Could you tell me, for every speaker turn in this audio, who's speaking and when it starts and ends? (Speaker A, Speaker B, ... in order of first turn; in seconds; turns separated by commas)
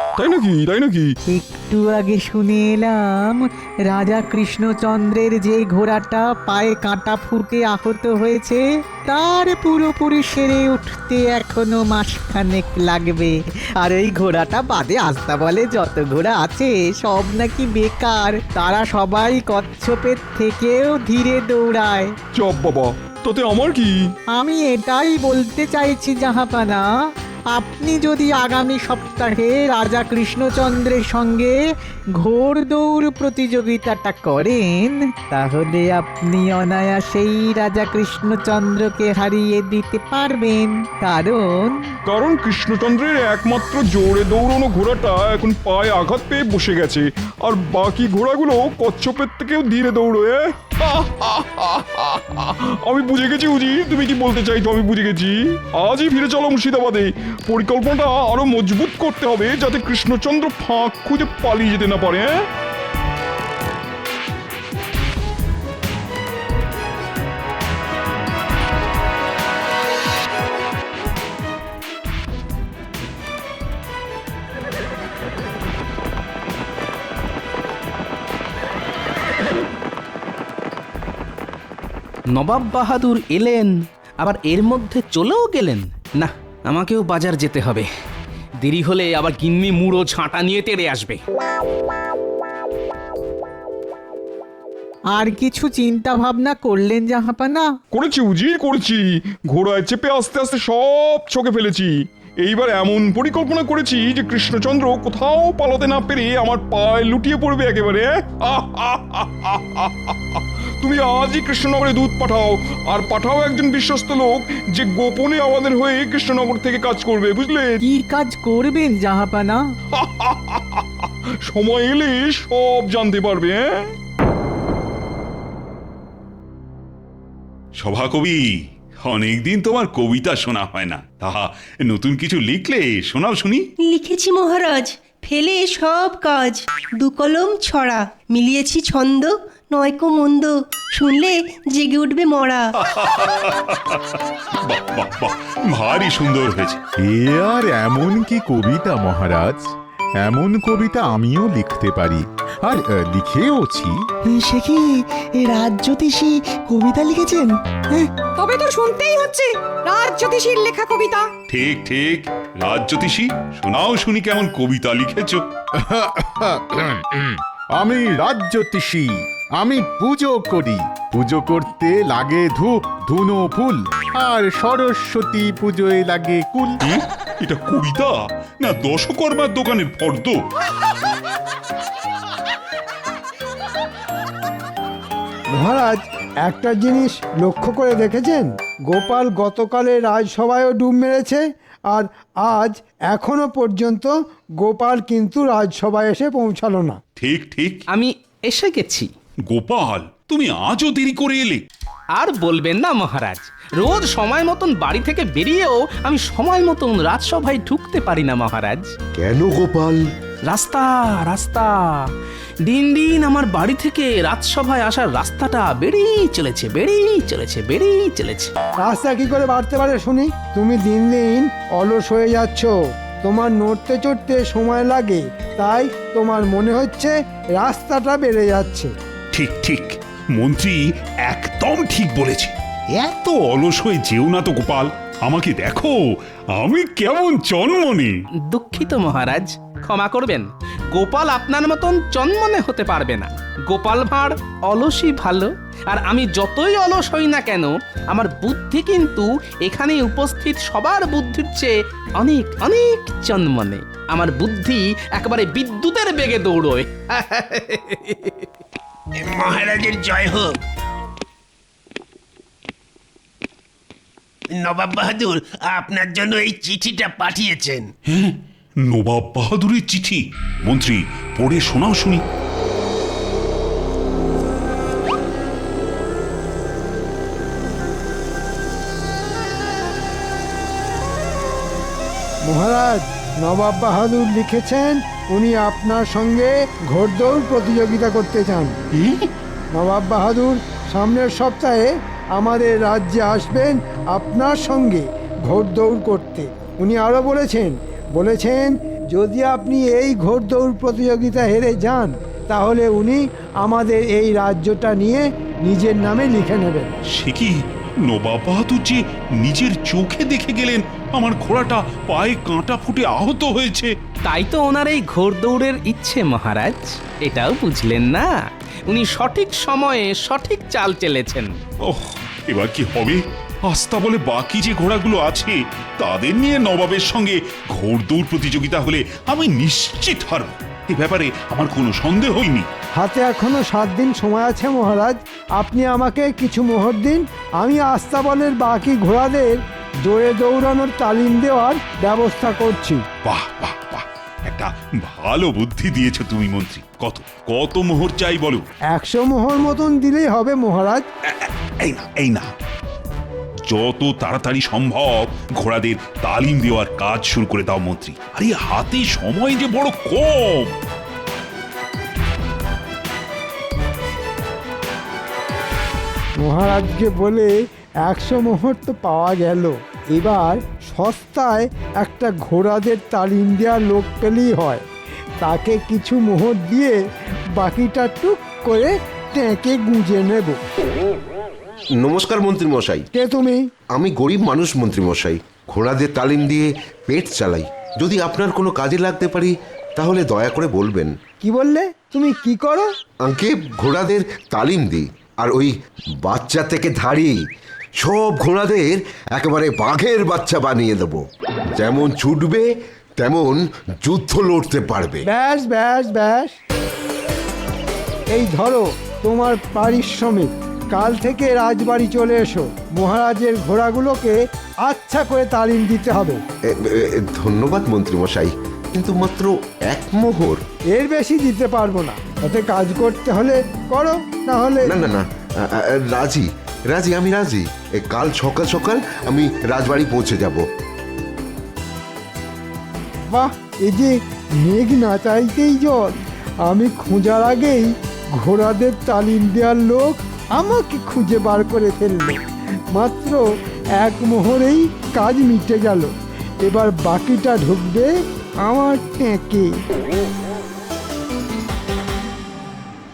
Speaker A: 0.2-1.1, Speaker B: 1.3-22.1, Speaker A: 22.3-24.0, Speaker B: 24.3-26.9, Speaker B: 27.5-31.6, Speaker B: 32.2-41.8, Speaker A: 42.1-62.5, Speaker C: 82.3-87.9, Speaker C: 88.6-91.2, Speaker B: 95.1-97.7, Speaker A: 97.9-117.8, Speaker B: 117.8-119.6, Speaker A: 119.9-123.9, Speaker D: 127.8-128.4, Speaker D: 129.0-133.6, Speaker E: 133.8-142.7, Speaker D: 142.8-146.8, Speaker F: 147.0-149.7, Speaker F: 150.2-154.0, Speaker G: 154.3-157.6, Speaker H: 158.2-161.3, Speaker D: 161.5-165.4, Speaker F: 165.8-176.7, Speaker D: 176.8-180.4, Speaker I: 185.5-197.0, Speaker D: 197.2-197.8, Speaker C: 197.9-199.1, Speaker D: 199.5-201.6, Speaker C: 202.2-208.9, Speaker J: 209.2-210.0, Speaker C: 210.5-212.1, Speaker C: 212.6-218.5, Speaker I: 218.8-228.9, Speaker D: 229.3-235.9, Speaker D: 236.6-238.1, Speaker C: 238.4-258.5, Speaker K: 259.2-260.6, Speaker K: 264.5-267.9, Speaker D: 268.1-272.2, Speaker I: 282.5-288.7, Speaker I: 289.7-306.9, Speaker D: 307.1-313.9, Speaker C: 314.2-318.3, Speaker C: 318.9-321.5, Speaker D: 321.8-332.7, Speaker I: 333.0-343.0, Speaker D: 343.2-348.6, Speaker I: 348.9-351.0, Speaker D: 351.3-352.5, Speaker D: 353.7-360.7, Speaker I: 366.4-367.5, Speaker I: 368.0-374.8, Speaker I: 375.4-377.0, Speaker I: 377.6-380.6, Speaker J: 382.0-383.1, Speaker I: 383.1-383.6, Speaker J: 383.9-391.1, Speaker I: 391.4-392.9, Speaker J: 393.2-397.4, Speaker J: 398.0-401.2, Speaker J: 401.8-402.6, Speaker J: 403.2-405.2, Speaker I: 405.2-406.6, Speaker I: 408.3-416.4, Speaker J: 416.7-420.6, Speaker I: 420.9-424.9, Speaker J: 424.9-430.6, Speaker I: 433.3-442.4, Speaker I: 442.9-443.4, Speaker I: 444.0-446.1, Speaker I: 446.6-448.1, Speaker I: 448.6-449.7